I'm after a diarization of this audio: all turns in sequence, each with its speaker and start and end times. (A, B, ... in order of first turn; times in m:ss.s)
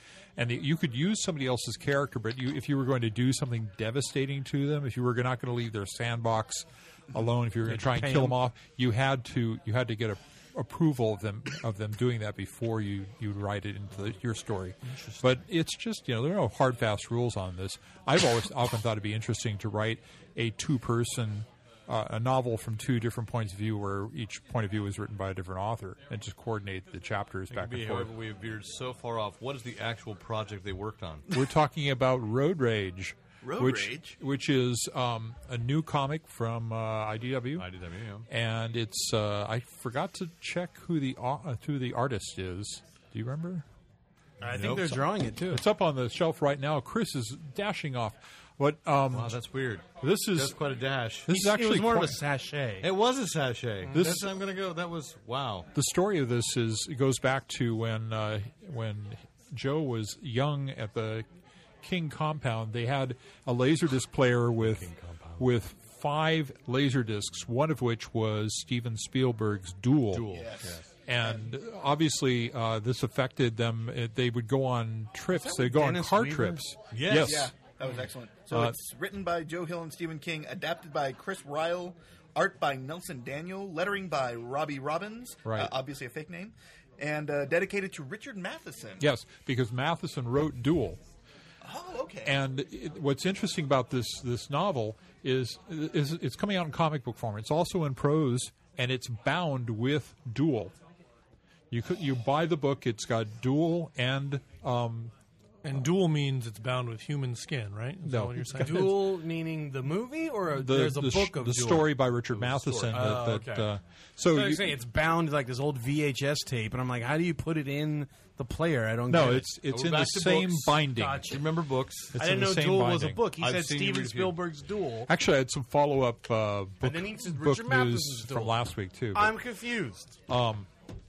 0:00.4-0:28.1 A
0:07.7-0:08.4 B
0:27.5-0:31.4 C
0:31.3-0:37.7 A
0:33.4-0:34.2 D
0:37.6-0:38.3 C
0:38.3-0:43.6 A
0:44.4-0:44.9 C
0:44.4-0:45.6 B
0:44.6-0:49.4 A
0:49.1-0:51.3 C
0:50.0-0:50.6 A
0:51.2-0:52.2 A
0:51.3-0:52.9 B
0:52.8-0:55.7 C
0:53.9-0:54.3 A
0:55.8-1:01.3 A
1:01.8-1:10.3 A
1:04.6-1:05.5 C
1:10.1-1:10.9 C
1:10.3-1:11.4 D
1:11.1-1:17.5 A
1:15.3-1:16.6 B
1:16.9-1:17.5 C
1:17.2-1:29.0 D
1:25.5-1:25.7 A
1:29.0-1:31.0 A
1:31.6-1:32.4 D
1:32.2-1:40.8 A
1:41.7-1:45.1 A
1:45.6-1:48.9 E
1:48.0-1:49.1 A
1:48.6-1:51.9 B
1:50.5-1:54.8 A
1:52.3-1:53.2 C
1:52.9-1:53.7 B
1:54.3-1:59.5 B
1:59.1-2:01.4 A
1:59.7-2:02.2 C
2:01.0-2:01.4 B
2:02.1-2:03.3 A
2:02.2-2:05.1 B
2:03.4-2:04.4 C
2:05.1-2:09.4 A
2:06.8-2:10.1 B
2:10.3-2:10.7 A